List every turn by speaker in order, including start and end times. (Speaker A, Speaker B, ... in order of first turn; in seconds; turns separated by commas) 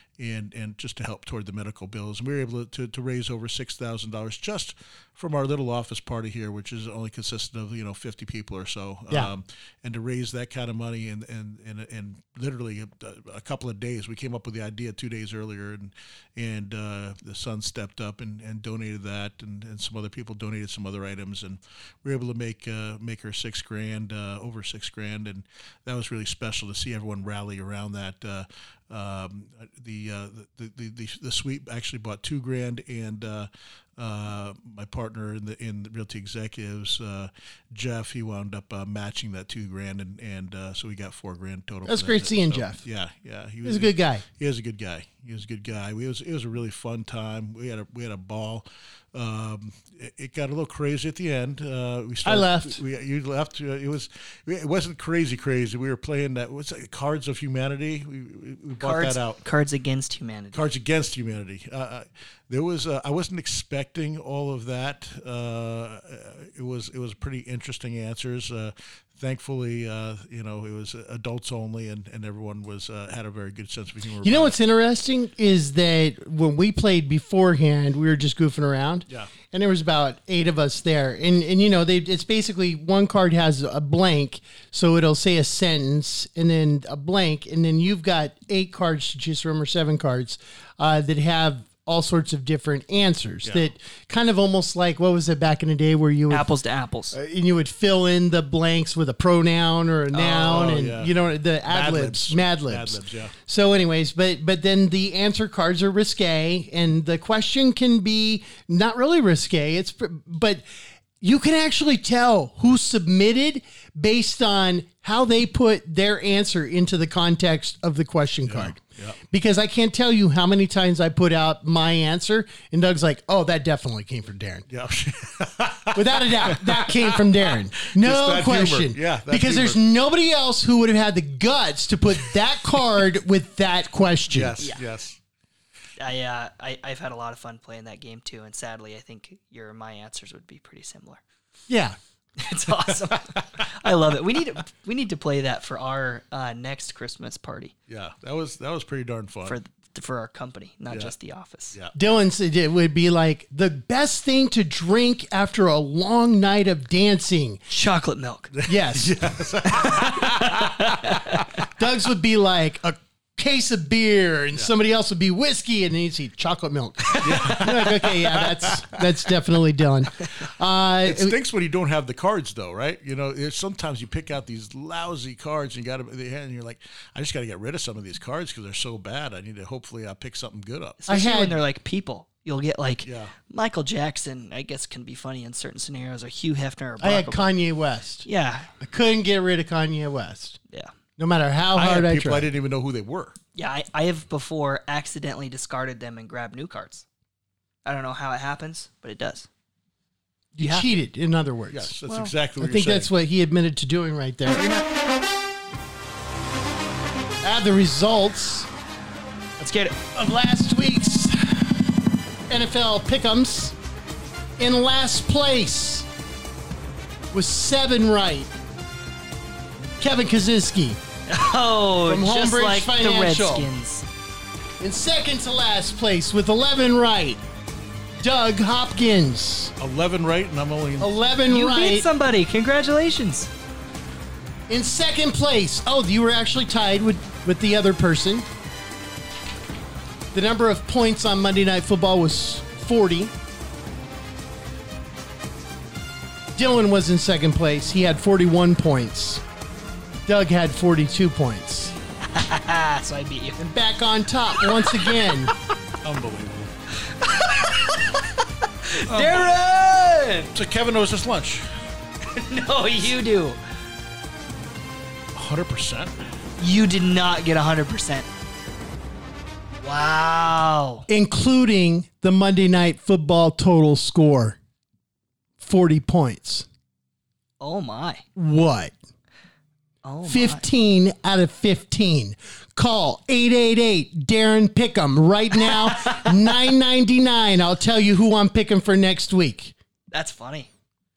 Speaker A: 0.2-59.4, Speaker B: 41.9-42.8, Speaker B: 43.6-44.2, Speaker B: 52.2-52.8, Speaker C: 58.8-60.7, Speaker A: 60.5-74.6, Speaker B: 74.2-96.5, Speaker C: 96.3-97.2, Speaker B: 97.1-110.6, Speaker A: 100.1-101.2, Speaker A: 101.7-103.3, Speaker B: 111.2-118.8, Speaker A: 118.5-119.2, Speaker B: 119.3-124.7, Speaker A: 124.7-129.8, Speaker B: 126.0-134.6, Speaker A: 134.3-135.2, Speaker C: 136.0-141.2, Speaker B: 141.7-142.0, Speaker C: 142.4-147.7, Speaker A: 147.9-149.6, Speaker C: 149.5-151.8, Speaker B: 151.9-157.6, Speaker C: 157.7-158.5, Speaker A: 158.6-161.2, Speaker B: 158.7-159.2, Speaker C: 159.9-161.5, Speaker B: 161.8-171.4, Speaker A: 167.2-169.0, Speaker A: 171.0-181.0, Speaker C: 181.0-187.5, Speaker B: 181.1-181.6, Speaker A: 183.0-183.3, Speaker B: 187.0-188.3, Speaker C: 188.2-188.7, Speaker B: 188.8-190.6, Speaker B: 191.2-192.5, Speaker A: 191.8-193.4, Speaker C: 193.6-197.1, Speaker C: 197.8-199.5, Speaker B: 200.5-202.0, Speaker C: 200.6-200.9, Speaker A: 201.7-203.1, Speaker C: 202.1-202.3, Speaker B: 202.6-204.7, Speaker C: 204.6-204.8, Speaker B: 207.4-208.7, Speaker C: 209.6-210.0, Speaker B: 210.2-211.9, Speaker B: 212.5-213.8, Speaker B: 214.6-216.1, Speaker B: 217.3-218.5, Speaker B: 220.0-221.0, Speaker C: 221.3-224.1, Speaker B: 222.1-223.7, Speaker B: 224.8-227.4, Speaker B: 228.2-229.7, Speaker A: 229.8-231.1, Speaker B: 231.0-232.1, Speaker C: 231.5-233.5, Speaker B: 234.7-238.5, Speaker B: 240.3-243.3, Speaker B: 246.6-249.4, Speaker B: 250.3-251.9, Speaker C: 252.3-253.6, Speaker B: 253.6-255.5, Speaker C: 254.7-255.1, Speaker A: 256.0-256.7, Speaker C: 257.2-258.2, Speaker C: 258.9-260.6, Speaker A: 259.1-259.5, Speaker A: 260.5-261.7, Speaker C: 262.3-263.6, Speaker A: 265.4-266.1, Speaker C: 266.6-268.3, Speaker C: 269.8-271.1, Speaker B: 271.1-274.6, Speaker B: 275.6-276.7, Speaker C: 277.6-278.2, Speaker B: 278.4-278.9, Speaker C: 280.0-280.6, Speaker B: 280.2-289.7, Speaker C: 285.9-286.3, Speaker C: 290.1-290.7